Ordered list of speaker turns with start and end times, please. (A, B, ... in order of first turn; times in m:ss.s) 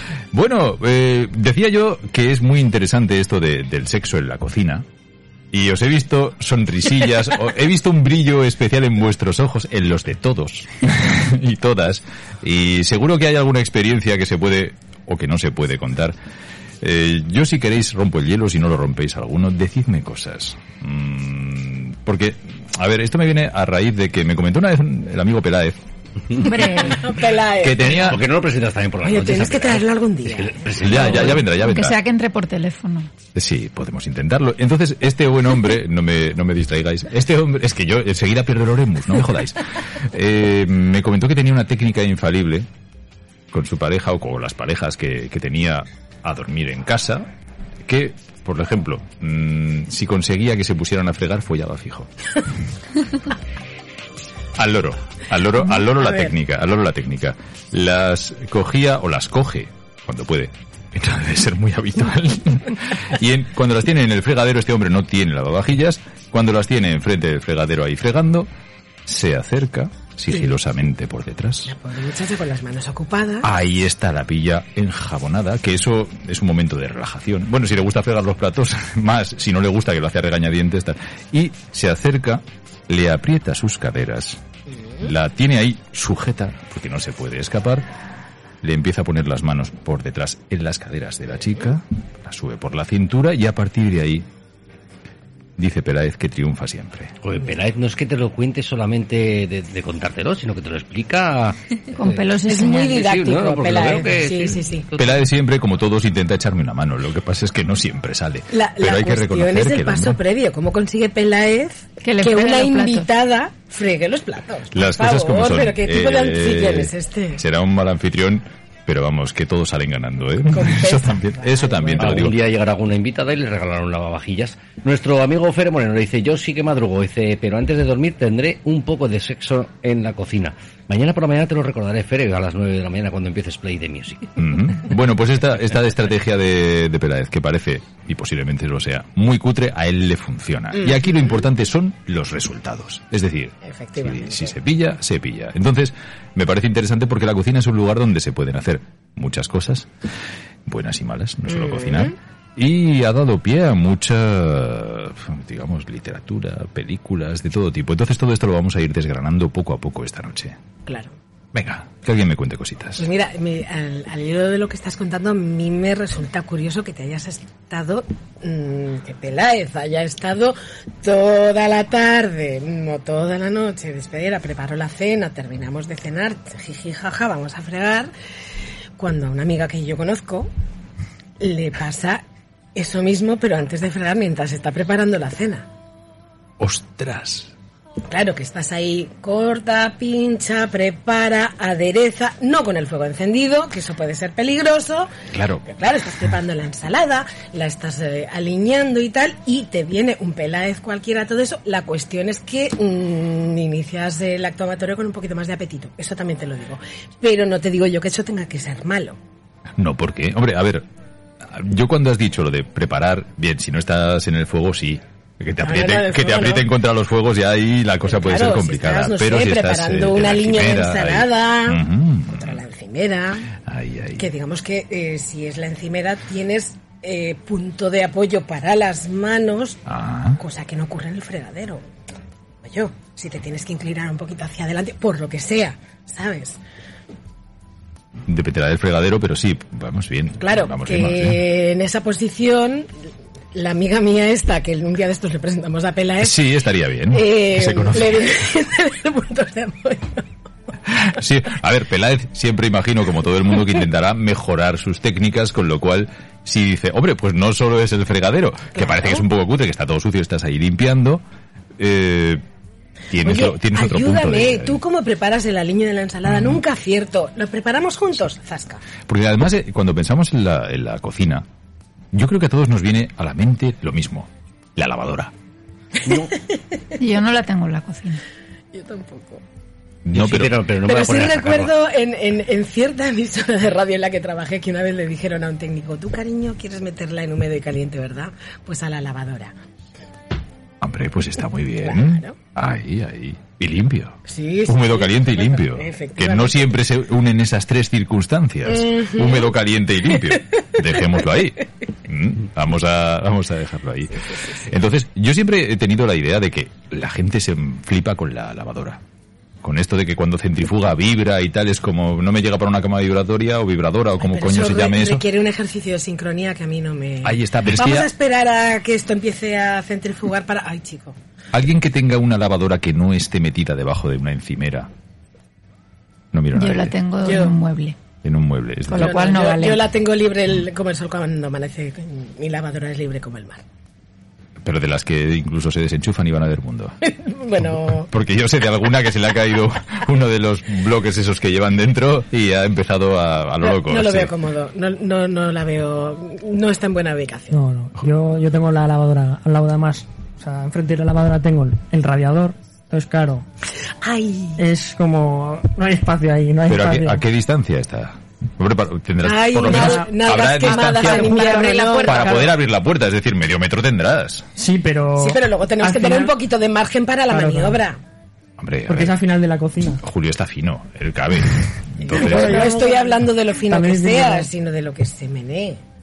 0:00.3-0:04.8 A
0:05.5-0:16.2 A
0:16.8-0:25.8 A
0:26.4-0:27.0 B
0:26.7-0:28.2 C
0:27.6-0:28.2 A
0:27.8-0:31.4 D
0:29.0-0:30.7 C
0:30.8-0:32.0 A
0:31.5-0:33.1 B
0:33.4-0:42.7 A
0:43.5-0:47.3 A
0:47.8-0:52.1 A
0:54.6-1:08.5 A
1:09.0-1:11.7 A
1:11.7-1:13.5 C
1:13.4-1:24.4 A
1:25.0-1:27.9 A
1:28.6-1:34.3 A
1:35.6-1:37.1 A
1:37.2-1:42.2 D
1:42.0-1:43.1 B
1:42.5-1:44.9 C
1:42.8-1:45.2 D
1:45.0-1:50.2 A
1:48.5-1:57.4 C
1:52.0-1:53.1 B
1:54.7-2:02.4 A
2:00.5-2:02.2 C
2:02.0-2:14.4 D
2:14.4-2:29.9 A
2:20.8-2:21.3 C
2:23.6-2:24.6 C
2:30.7-2:40.6 A
2:31.5-2:32.1 C
2:40.9-2:41.1 C
2:41.5-2:43.0 A
2:43.0-2:58.1 C
2:59.0-3:00.5 C
3:01.4-3:02.2 C
3:02.8-3:05.7 C
3:06.6-3:07.5 A
3:08.1-3:15.1 C
3:15.3-3:15.6 A
3:15.6-3:29.2 C
3:29.8-3:30.8 A
3:31.4-3:42.6 A
3:35.6-3:36.7 C
3:38.1-3:43.5 C
3:43.6-3:44.3 A
3:44.2-3:49.8 C
3:49.9-3:50.4 A
3:50.4-3:51.8 C
3:52.6-3:56.6 C
3:58.3-4:01.4 A
4:00.4-4:02.9 C
4:03.5-4:06.4 C
4:06.2-4:08.3 A
4:07.1-4:10.3 C
4:10.9-4:21.2 A
4:18.8-4:19.2 C
4:21.8-4:22.4 A
4:23.1-4:24.8 A
4:23.2-4:28.8 C
4:29.1-4:31.5 A
4:32.1-4:35.3 A
4:36.1-4:36.3 D
4:37.0-4:38.2 B
4:38.7-4:39.4 C
4:40.0-4:40.6 A
4:40.1-4:41.7 D
4:40.9-4:49.6 C
4:50.8-5:09.0 A
4:51.8-4:52.4 C
4:54.2-4:56.8 C
4:58.7-4:59.5 C
5:09.6-5:15.2 A
5:14.2-5:21.2 C
5:17.2-5:18.1 A
5:21.5-5:24.9 A
5:26.3-5:27.0 A
5:26.6-5:28.0 B
5:27.2-5:27.6 C
5:28.2-5:29.3 A
5:28.9-5:29.9 B
5:29.0-5:33.6 C
5:34.6-5:37.0 A
5:37.0-5:38.1 C
5:37.9-5:44.3 A
5:43.6-5:47.6 C
5:47.5-5:53.4 E
5:54.0-5:54.6 C
5:54.6-5:57.2 E
5:56.7-6:01.5 A
5:59.2-6:02.4 C
5:59.6-6:00.3 E
6:01.0-6:02.3 B
6:01.1-6:02.5 E
6:02.1-6:04.5 A
6:04.6-6:06.4 E
6:05.2-6:08.0 C
6:07.3-6:07.8 E
6:08.6-6:09.2 A
6:08.9-6:10.0 E
6:10.0-6:12.7 A
6:12.0-6:15.8 C
6:12.1-6:14.5 E